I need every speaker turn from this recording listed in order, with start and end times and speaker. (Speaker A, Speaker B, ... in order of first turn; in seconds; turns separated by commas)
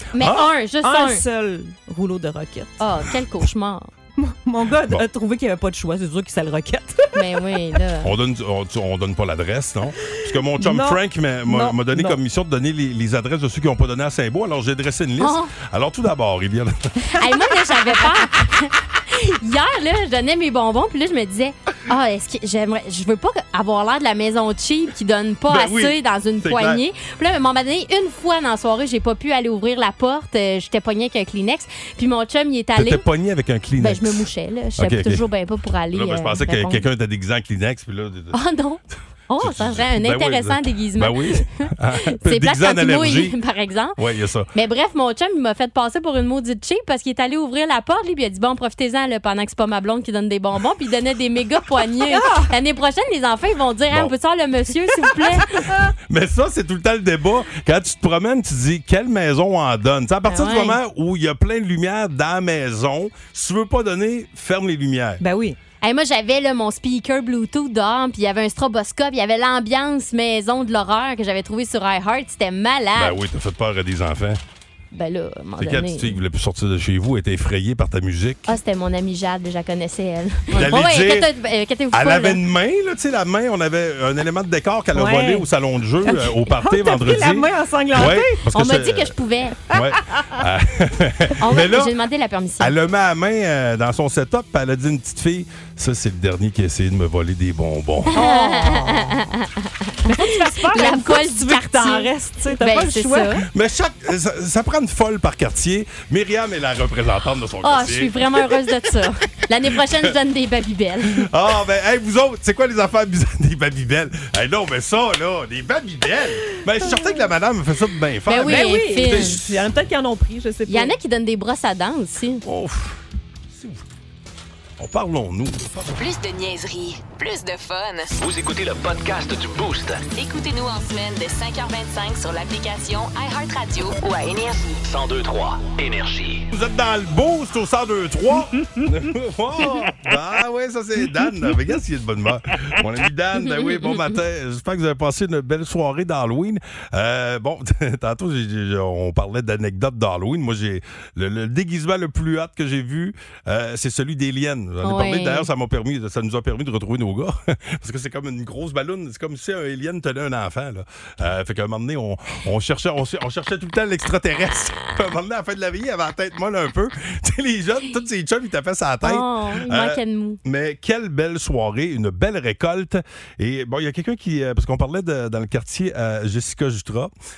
Speaker A: 0.1-1.2, Speaker B: 0.2-0.5, Speaker C: 0.8-2.8, Speaker A: 2.8-3.9, Speaker C: 4.2-7.4, Speaker A: 7.1-8.1, Speaker B: 8.0-16.8, Speaker C: 10.1-12.2, Speaker A: 15.2-15.5, Speaker A: 17.1-33.0, Speaker C: 17.6-18.1, Speaker B: 25.5-26.8, Speaker B: 32.8-34.3, Speaker A: 33.8-36.9, Speaker B: 34.8-35.2, Speaker B: 35.9-38.4, Speaker A: 38.3-44.0, Speaker B: 39.4-43.4, Speaker B: 44.0-44.5, Speaker A: 44.5-55.7, Speaker C: 52.1-52.5, Speaker B: 56.1-65.2, Speaker A: 60.3-60.8, Speaker C: 65.2-65.6, Speaker A: 65.8-73.2, Speaker B: 73.0-74.4, Speaker A: 74.9-76.2, Speaker B: 75.6-78.5, Speaker A: 78.5-82.4, Speaker B: 80.5-81.3, Speaker B: 81.9-89.1, Speaker C: 85.0-85.5, Speaker C: 86.0-88.4, Speaker A: 88.5-89.6, Speaker B: 89.7-91.9, Speaker C: 89.8-90.3, Speaker A: 91.4-92.7, Speaker B: 92.6-98.2, Speaker C: 98.1-99.1, Speaker A: 98.1-103.4, Speaker C: 100.0-103.4, Speaker B: 103.5-108.5, Speaker A: 107.6-111.2, Speaker B: 111.2-119.6, Speaker A: 118.3-119.4, Speaker C: 118.4-120.9, Speaker A: 120.7-122.4, Speaker B: 122.5-123.0, Speaker B: 123.5-123.8, Speaker B: 124.8-126.0, Speaker D: 126.0-128.1, Speaker E: 128.2-130.1, Speaker D: 130.1-134.8, Speaker E: 134.8-136.5, Speaker B: 136.5-177.1, Speaker A: 154.8-155.5, Speaker A: 169.0-170.4